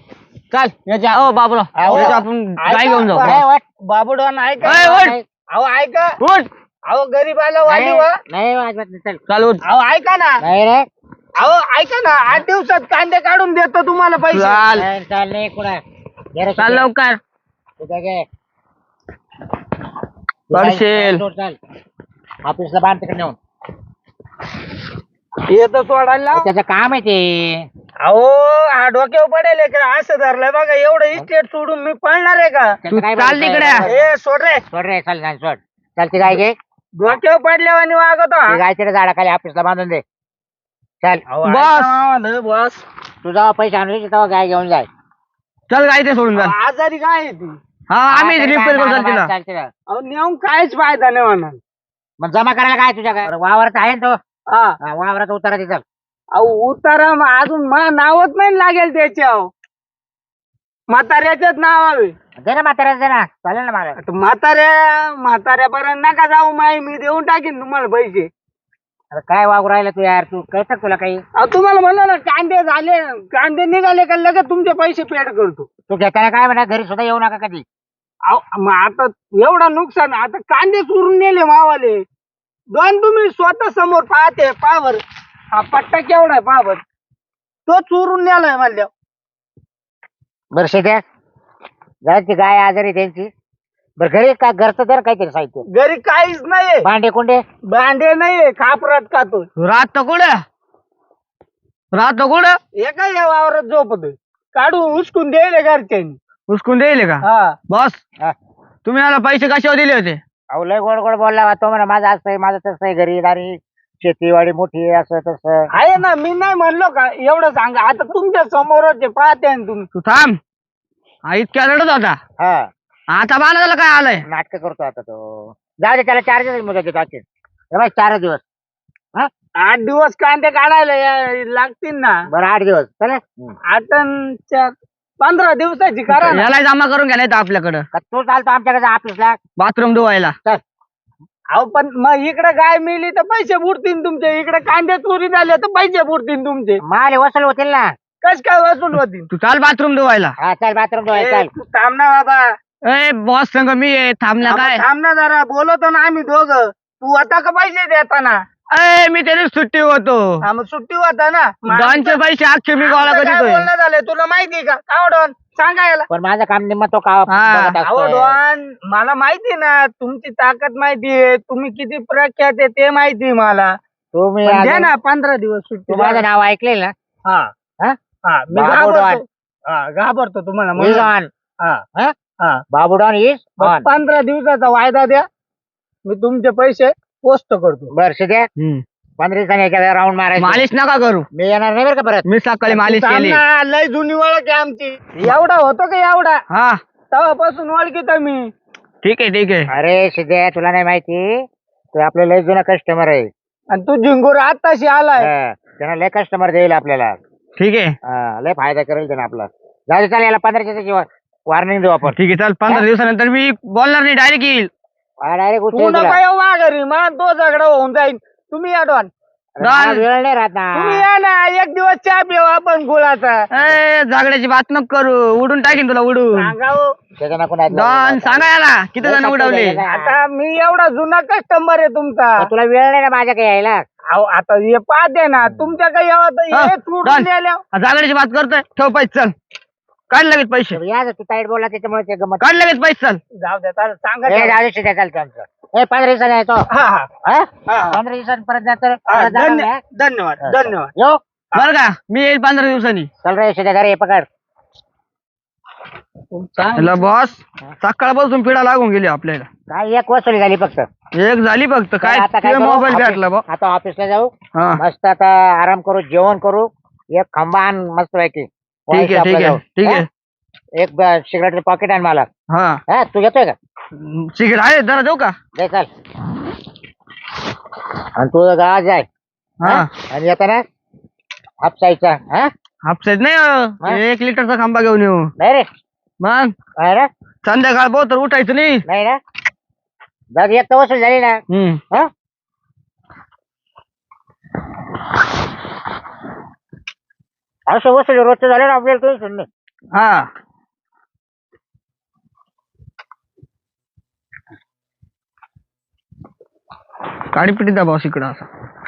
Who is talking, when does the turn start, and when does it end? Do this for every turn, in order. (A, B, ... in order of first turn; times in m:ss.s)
0:00.5-0:03.4 A
0:01.8-0:02.2 B
0:01.8-0:06.2 C
0:03.2-0:03.6 B
0:04.6-0:05.2 A
0:04.7-0:05.2 B
0:06.2-0:06.5 A
0:06.9-0:08.2 C
0:07.7-0:09.2 B
0:09.3-0:09.6 A
0:09.6-0:10.4 C
0:10.4-0:10.9 B
0:11.4-0:14.6 C
0:14.3-0:14.9 A
0:14.8-0:15.8 B
0:16.4-0:16.9 B
0:16.6-0:17.2 A
0:17.8-0:18.2 B
0:20.5-0:21.6 B
0:20.5-0:21.2 A
0:22.4-0:23.4 B
0:25.5-0:26.5 C
0:26.3-0:27.7 B
0:28.0-0:32.8 C
0:32.8-0:34.0 B
0:32.9-0:33.9 A
0:33.8-0:34.6 C
0:34.7-0:36.6 B
0:37.0-0:38.6 C
0:38.5-0:40.0 B
0:41.3-0:42.8 C
0:41.4-0:42.0 A
0:43.2-0:44.9 B
0:45.7-0:46.5 A
0:46.4-0:47.6 C
0:47.9-0:49.3 A
0:48.1-0:49.7 B
0:49.9-0:51.6 C
0:52.2-0:54.2 B
0:54.5-0:54.8 C
0:54.8-0:55.8 B
0:56.4-0:59.5 C
1:00.9-1:02.1 C
1:02.4-1:04.0 B
1:04.0-1:08.3 C
1:09.1-1:11.2 B
1:11.4-1:15.7 C
1:15.9-1:17.6 B
1:18.3-1:22.0 C
1:22.7-1:25.0 C
1:25.5-1:26.8 C
1:27.7-1:28.9 C
1:30.5-1:31.0 B
1:32.1-1:33.3 B
1:34.0-1:35.6 B
1:35.7-1:36.9 C
1:36.8-1:37.4 B
1:37.7-1:39.5 C
1:39.6-1:40.4 A
1:41.9-1:42.6 A
1:42.8-1:46.2 C
1:46.5-1:48.0 A
1:47.2-1:47.6 C
1:48.8-1:50.2 A
1:50.5-1:55.7 B
1:55.7-1:59.9 C
2:00.0-2:00.4 A
2:01.3-2:02.2 A
2:02.4-2:02.7 B
2:03.1-2:04.2 A
2:04.2-2:08.4 B
2:09.6-2:12.2 C
2:12.3-2:13.6 B
2:13.7-2:16.5 C
2:16.1-2:17.9 A
2:17.9-2:19.4 B
2:19.6-2:20.4 A
2:21.5-2:26.8 C
2:26.8-2:27.9 B
2:28.2-2:29.3 C
2:29.3-2:30.4 A
2:30.4-2:31.5 B
2:31.1-2:32.5 C
2:32.8-2:34.8 A
2:34.4-2:38.4 C
2:38.7-2:40.4 A
2:40.4-2:42.2 C
2:41.7-2:43.7 A
2:42.8-2:46.1 C
2:46.1-2:48.4 B
2:47.3-2:47.8 A
2:47.8-2:53.7 C
2:54.1-2:54.9 B
2:54.4-2:56.2 C
2:55.9-2:56.9 B
2:58.3-3:01.1 C
2:58.5-2:59.2 B
3:00.8-3:01.3 B
3:02.7-3:03.9 B
3:03.6-3:05.2 C
3:06.0-3:07.9 C
3:07.9-3:08.5 B
3:08.6-3:08.8 A
3:09.2-3:10.7 B
3:10.4-3:11.3 A
3:11.4-3:12.3 B
3:12.3-3:13.4 A
3:12.7-3:16.4 C
3:16.5-3:16.8 A
3:17.1-3:18.5 C
3:19.0-3:19.7 A
3:19.7-3:23.3 B
3:23.7-3:25.3 C
3:25.2-3:27.2 B
3:27.6-3:27.9 A
3:28.0-3:32.9 B
3:32.1-3:34.7 A
3:35.2-3:36.2 B
3:35.7-3:39.1 C
3:39.6-3:41.1 B
3:39.6-3:40.0 A
3:40.7-3:43.5 C
3:43.5-3:46.5 A
3:46.3-3:46.9 C
3:47.2-3:50.2 B
3:47.7-3:49.8 A
3:49.9-3:52.5 C
3:52.4-3:53.8 B
3:54.1-3:57.6 C
3:55.4-3:55.7 B
3:56.5-3:59.3 A
4:00.1-4:00.8 A
4:00.7-4:02.5 B
4:02.4-4:03.2 A
4:03.3-4:04.6 C
4:04.3-4:06.7 B
4:06.7-4:07.1 C
4:07.2-4:09.8 B
4:07.7-4:08.0 C
4:09.1-4:10.9 C
4:10.4-4:11.2 B
4:11.6-4:13.1 A
4:13.2-4:14.3 B
4:16.3-4:17.0 C
4:16.8-4:19.5 A
4:19.7-4:20.9 B
4:21.2-4:23.4 A
4:22.0-4:30.0 B
4:24.6-4:24.8 A
4:28.9-4:30.1 A
4:30.8-4:32.3 B
4:32.5-4:32.8 A
4:32.9-4:33.6 B
4:34.0-4:35.4 A
4:35.6-4:35.9 B
4:38.2-4:39.1 B
4:39.6-4:39.9 A
4:39.6-4:40.6 B
4:41.6-4:42.5 B
4:42.8-4:45.3 A
4:45.4-4:45.7 B
4:46.2-4:46.5 A
4:46.8-4:47.1 B
4:47.4-4:48.8 A
4:48.9-4:49.2 B
4:50.4-4:52.1 B
4:51.5-4:51.8 A
4:57.7-4:59.5 B
4:59.9-5:00.3 A
5:07.3-5:08.5 A